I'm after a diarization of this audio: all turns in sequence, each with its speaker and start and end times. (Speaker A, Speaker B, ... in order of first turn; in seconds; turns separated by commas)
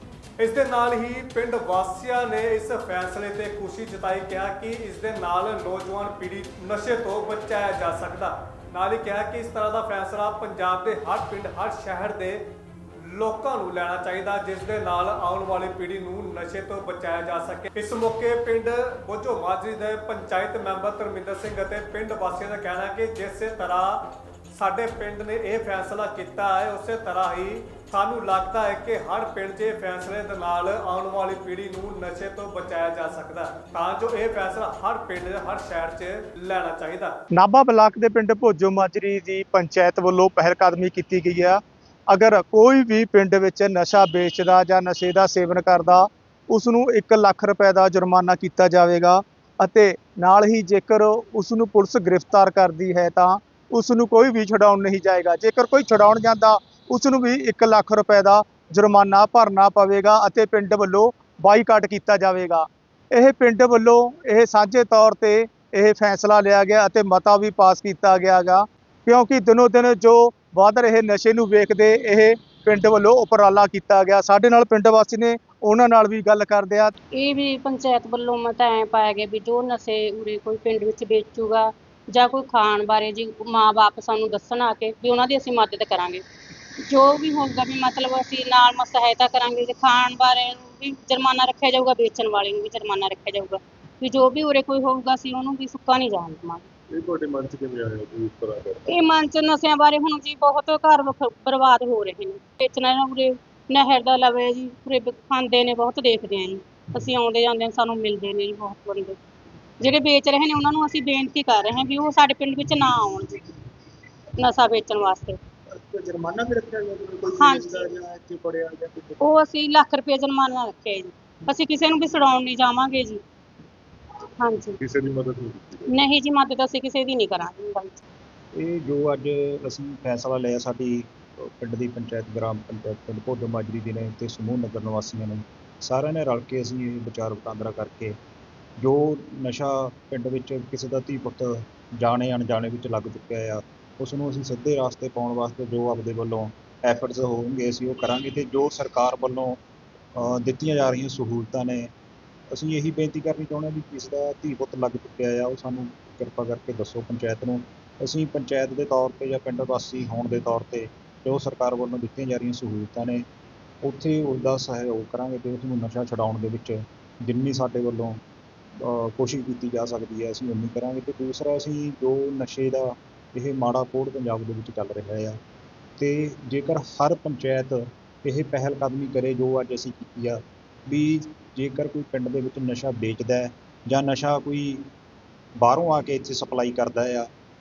Speaker A: 0.4-12.5, Speaker A: 13.0-37.2, Speaker B: 37.3-76.9, Speaker C: 77.2-86.2, Speaker C: 86.9-96.7, Speaker D: 97.0-98.7, Speaker C: 98.9-109.2, Speaker C: 109.8-113.4, Speaker C: 114.4-115.4, Speaker B: 115.8-119.2, Speaker C: 117.3-117.8, Speaker C: 119.2-123.2, Speaker C: 124.4-124.8, Speaker D: 124.9-125.8, Speaker C: 125.9-128.0, Speaker E: 128.6-138.2, Speaker E: 138.8-149.6, Speaker E: 150.2-151.9, Speaker E: 152.5-163.2, Speaker E: 163.8-168.2, Speaker E: 168.8-175.4, Speaker E: 176.0-184.9, Speaker E: 185.6-187.3